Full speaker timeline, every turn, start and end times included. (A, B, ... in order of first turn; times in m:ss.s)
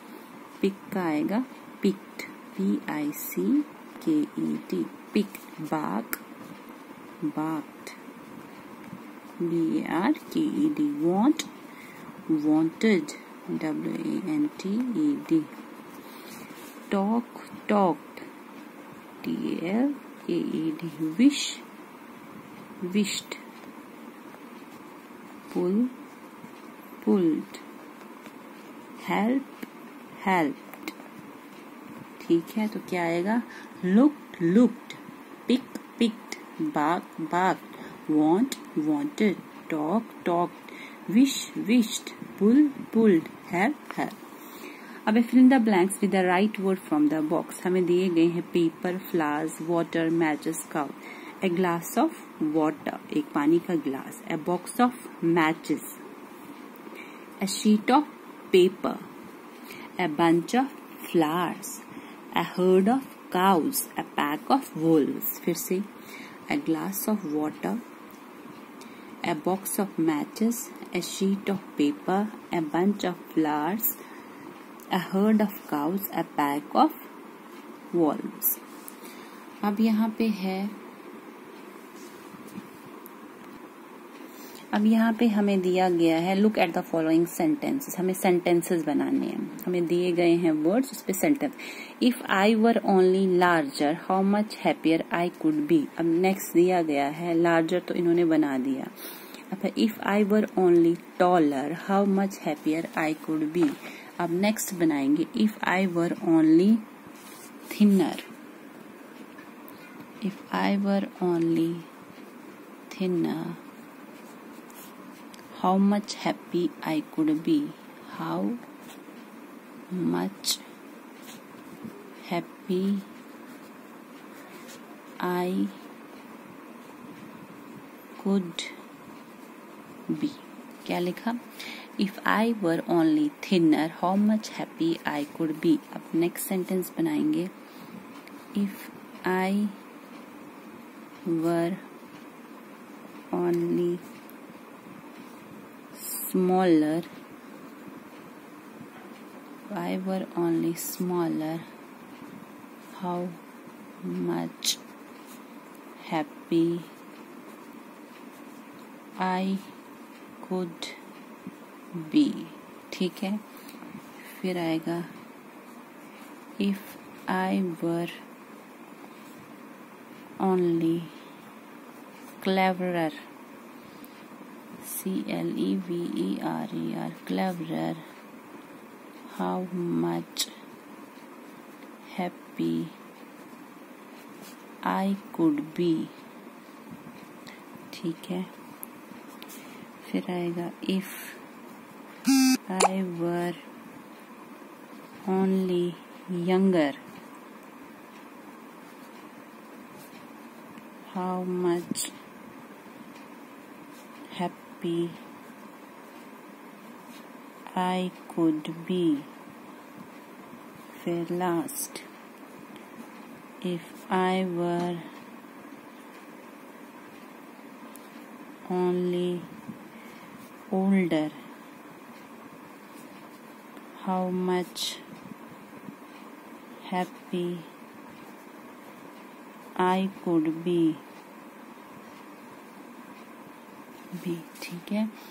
0:00.6-0:06.2 A
0:07.2-0:08.0 A
0:09.4-0:11.5 A
0:12.3-0:15.5 A
0:16.9-0:18.3 A
0:19.2-0:21.6 A
0:22.8-0:23.4 A
0:25.5-0:25.9 A
0:27.0-0:27.6 A
0:29.0-0:30.9 A
0:32.2-0:44.2 A
0:45.0-0:56.0 A
0:57.4-0:59.1 A
1:00.0-1:05.9 A
1:06.5-1:07.8 A
1:09.2-1:14.0 A
1:14.9-1:17.1 A
1:17.9-1:18.6 A
1:19.6-1:20.8 A
1:24.7-1:38.9 A
1:39.5-1:46.8 A
1:47.7-1:48.3 A
1:50.2-1:51.9 A
1:52.9-1:53.6 A
1:55.5-1:58.6 A
1:59.9-2:00.6 A
2:02.2-2:03.1 A
2:05.2-2:05.8 A
2:08.2-2:08.8 A
2:10.1-2:11.4 A
2:12.0-2:17.5 A
2:18.6-2:19.8 A
2:21.2-2:21.8 A
2:23.3-2:24.0 A
2:25.9-2:27.1 A
2:29.7-2:31.7 A
2:32.9-2:33.4 A
2:34.0-2:34.8 A
2:36.0-2:36.9 A
2:39.2-2:39.7 A
2:40.4-2:41.0 A
2:41.9-2:43.4 A
2:44.2-2:45.1 A
2:46.6-2:48.1 A
2:50.4-2:51.2 A
2:52.4-2:53.2 A
2:54.8-2:58.0 A
2:59.3-3:00.5 A
3:02.0-3:03.0 A
3:04.8-3:06.1 A
3:07.9-3:08.5 A
3:10.0-3:11.4 A
3:12.7-3:13.6 A
3:15.2-3:17.0 A
3:21.0-3:22.1 A
3:24.3-3:25.2 A
3:27.7-3:29.3 A
3:30.9-3:32.0 A
3:33.6-3:35.1 A
3:38.7-3:39.5 A
3:40.7-3:41.4 A
3:44.0-3:45.0 A
3:46.8-3:47.7 A
3:49.8-3:51.0 A
3:54.2-3:55.1 A